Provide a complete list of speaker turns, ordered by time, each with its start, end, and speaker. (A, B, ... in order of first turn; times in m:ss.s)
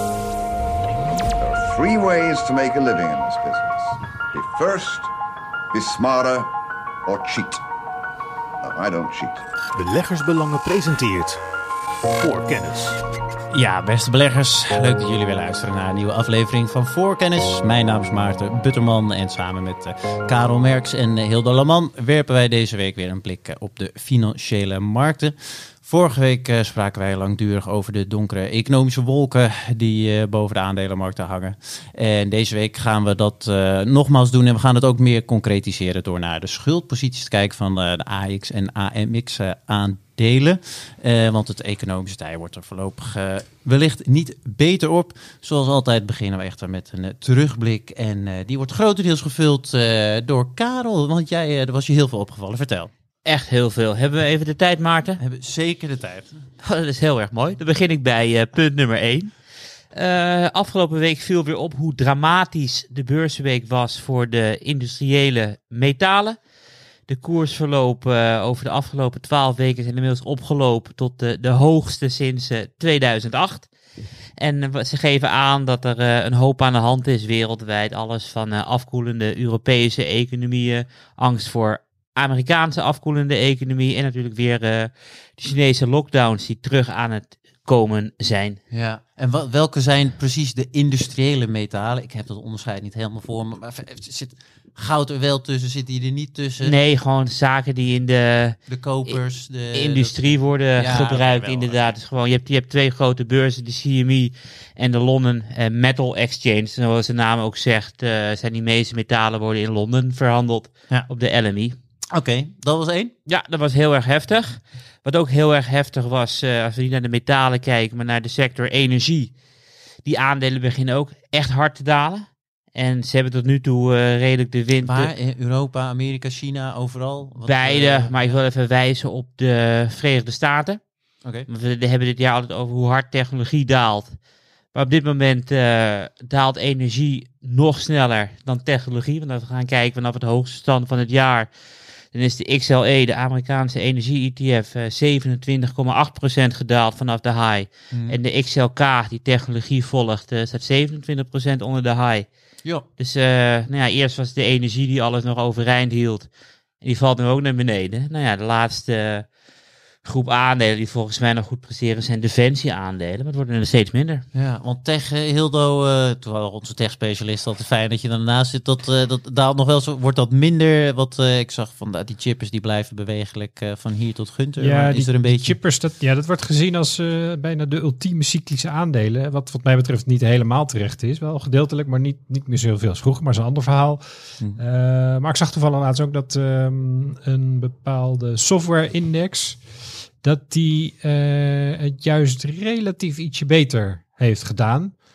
0:01.3-0:05.1 A
0:05.7-0:06.5 A
0:07.0-0:07.6 A
0:08.6-0:09.4 A
0:09.7-0:11.4 B
0:12.2-0:13.0 B
0:13.5-0:52.9 C
0:53.2-0:55.2 D
0:55.2-0:56.4 C
0:56.6-0:59.4 D
0:59.9-1:06.4 D
1:07.1-1:13.7 D
1:14.4-1:28.6 D
1:28.7-1:36.8 C
1:36.6-1:51.7 D
1:38.7-1:41.9 C
1:52.1-1:53.1 C
1:53.2-1:59.4 D
2:00.0-2:05.1 D
2:04.8-2:08.4 C
2:07.4-2:14.2 D
2:14.7-2:21.5 D
2:22.1-2:32.3 D
2:33.0-2:39.3 D
2:40.0-2:44.2 D
2:44.3-2:55.6 C
2:54.6-3:09.7 E
3:10.2-3:15.0 E